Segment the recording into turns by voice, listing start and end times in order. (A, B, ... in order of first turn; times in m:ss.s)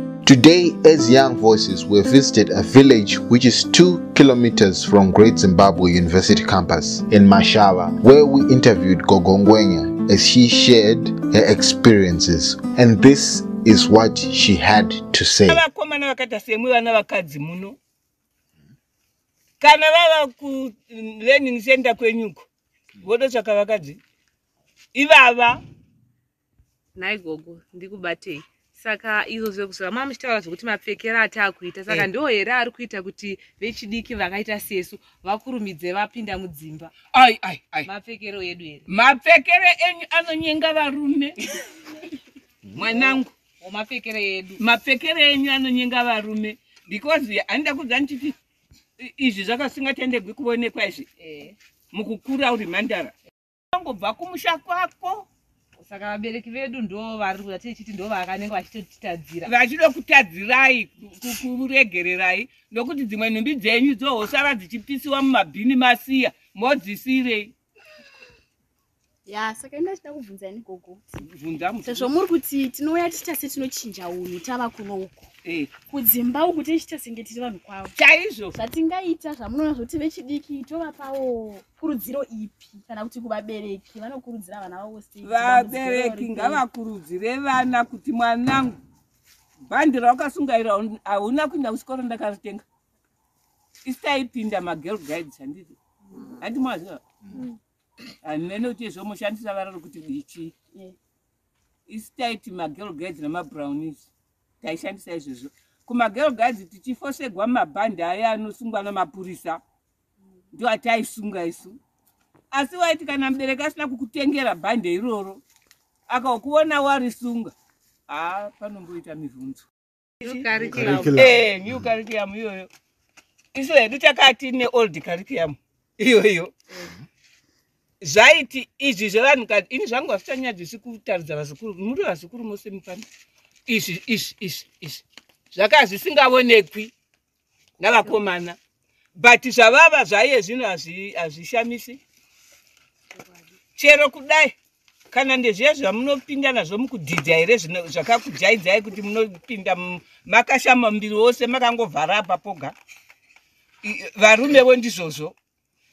0:00.2-0:15.6 A
0:15.4-0:17.8 B
0:19.6-0:22.4 B
0:23.0-0:24.0 B
0:24.9-0:25.6 B
0:27.0-0:36.9 C
0:37.1-0:37.9 B
0:37.8-0:38.8 C
0:38.9-0:41.4 B
0:42.7-0:43.3 B
0:42.9-0:44.6 C
0:44.6-0:48.4 B
0:49.0-0:51.1 B
0:51.2-0:51.5 C
0:51.9-0:53.1 B
0:53.7-0:55.2 B
0:55.8-0:59.5 C
0:59.4-1:07.5 B
1:09.3-1:11.0 D
1:11.3-1:12.2 B
1:11.8-1:15.2 D
1:15.4-1:15.7 B
1:15.9-1:17.9 D
1:17.9-1:18.6 B
1:18.6-1:26.6 D
1:25.2-1:28.8 B
1:29.7-1:32.6 B
1:33.8-1:35.8 B
1:36.4-1:37.0 B
1:38.2-1:40.5 B
1:41.9-1:44.1 B
1:44.6-1:49.6 B
1:50.5-1:51.8 B
1:52.5-1:55.4 B
1:56.1-1:57.5 B
1:58.1-1:59.6 B
2:00.2-2:02.7 B
2:00.2-2:01.2 C
2:03.5-2:06.5 B
2:08.0-2:13.0 B
2:13.7-2:15.0 B
2:15.5-2:16.9 B
2:17.8-2:18.6 B
2:19.2-2:22.0 B
2:23.8-2:24.5 B
2:25.1-2:32.7 B
2:33.8-2:35.4 B